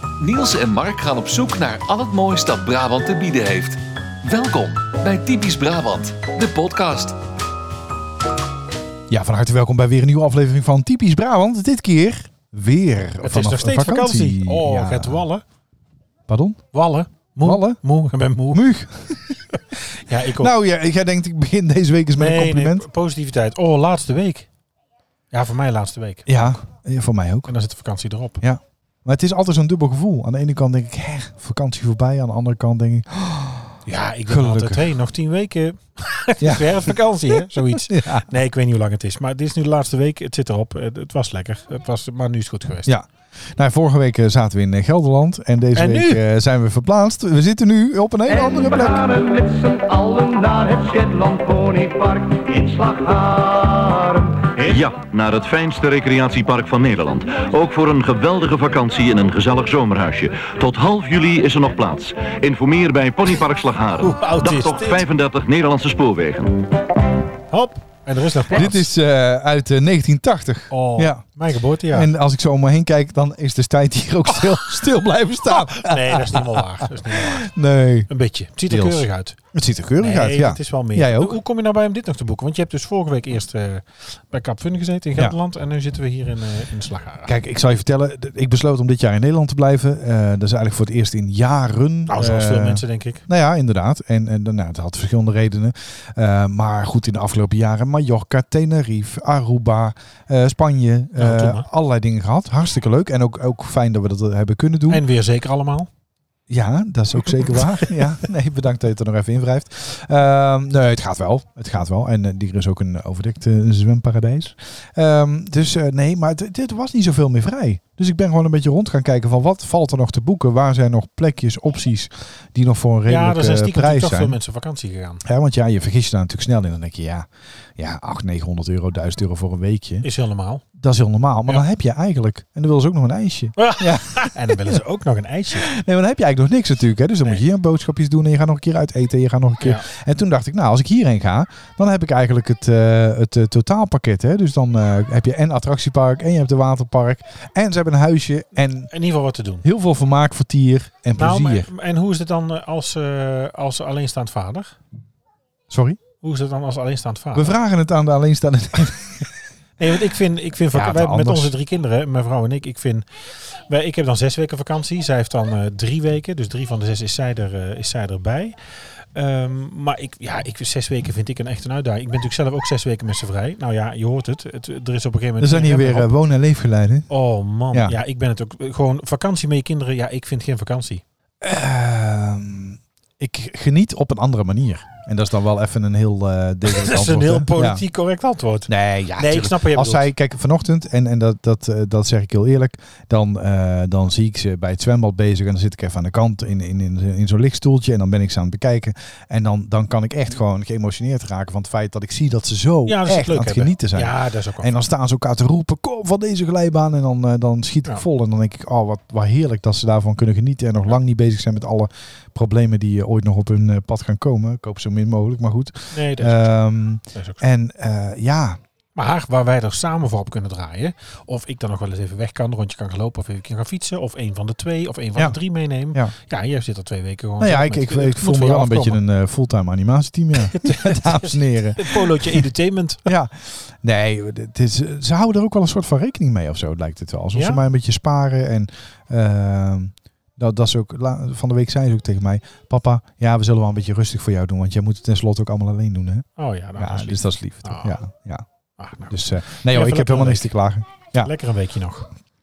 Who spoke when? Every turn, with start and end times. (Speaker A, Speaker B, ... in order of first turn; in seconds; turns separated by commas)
Speaker A: 0.2-7.2, Speaker B: 9.1-15.2, Speaker C: 13.2-15.4, Speaker B: 16.3-16.6, Speaker C: 16.7-18.6, Speaker B: 17.4-17.8, Speaker B: 18.5-19.6, Speaker C: 19.9-20.5, Speaker B: 20.4-22.9, Speaker C: 22.2-24.5, Speaker C: 25.3-26.3, Speaker B: 26.3-27.5, Speaker C: 27.5-28.4, Speaker B: 28.4-33.8, Speaker C: 33.9-42.9, Speaker B: 34.3-34.8, Speaker B: 36.4-38.2, Speaker B: 42.9-49.3, Speaker C: 45.8-46.2, Speaker D: 49.1-54.5, Speaker E: 54.5-66.6, Speaker C: 64.0-65.1, Speaker C: 67.5-68.9, Speaker B: 68.5-71.2, Speaker C: 70.7-72.1, Speaker B: 71.9-78.1, Speaker C: 75.6-77.5, Speaker C: 78.1-79.4, Speaker B: 78.7-81.4, Speaker C: 80.0-87.3, Speaker B: 87.3-105.0, Speaker C: 92.1-93.3, Speaker C: 101.2-101.7, Speaker C: 104.9-105.9, Speaker B: 106.5-124.4, Speaker C: 107.3-107.9, Speaker C: 123.1-125.2, Speaker B: 125.2-130.1, Speaker C: 130.0-130.6, Speaker B: 130.8-134.8, Speaker C: 133.6-135.7, Speaker B: 135.6-148.9, Speaker C: 139.6-139.9, Speaker C: 148.9-149.7, Speaker B: 149.6-151.7, Speaker C: 151.2-154.8, Speaker B: 155.7-156.0, Speaker C: 156.2-157.5, Speaker B: 157.3-159.3, Speaker C: 159.8-176.1, Speaker B: 160.7-161.5, Speaker B: 175.4-177.1, Speaker C: 177.1-181.0, Speaker B: 177.7-178.0, Speaker B: 181.4-187.8, Speaker C: 186.7-190.1, Speaker B: 188.7-218.6, Speaker C: 202.9-204.7, Speaker C: 215.9-216.6, Speaker C: 217.1-217.4, Speaker C: 219.0-229.0, Speaker B: 227.4-232.5, Speaker C: 230.4-233.1, Speaker B: 233.1-248.4, Speaker C: 237.3-237.6, Speaker C: 246.4-248.0, Speaker C: 248.8-250.5, Speaker B: 249.1-251.3, Speaker C: 251.2-252.1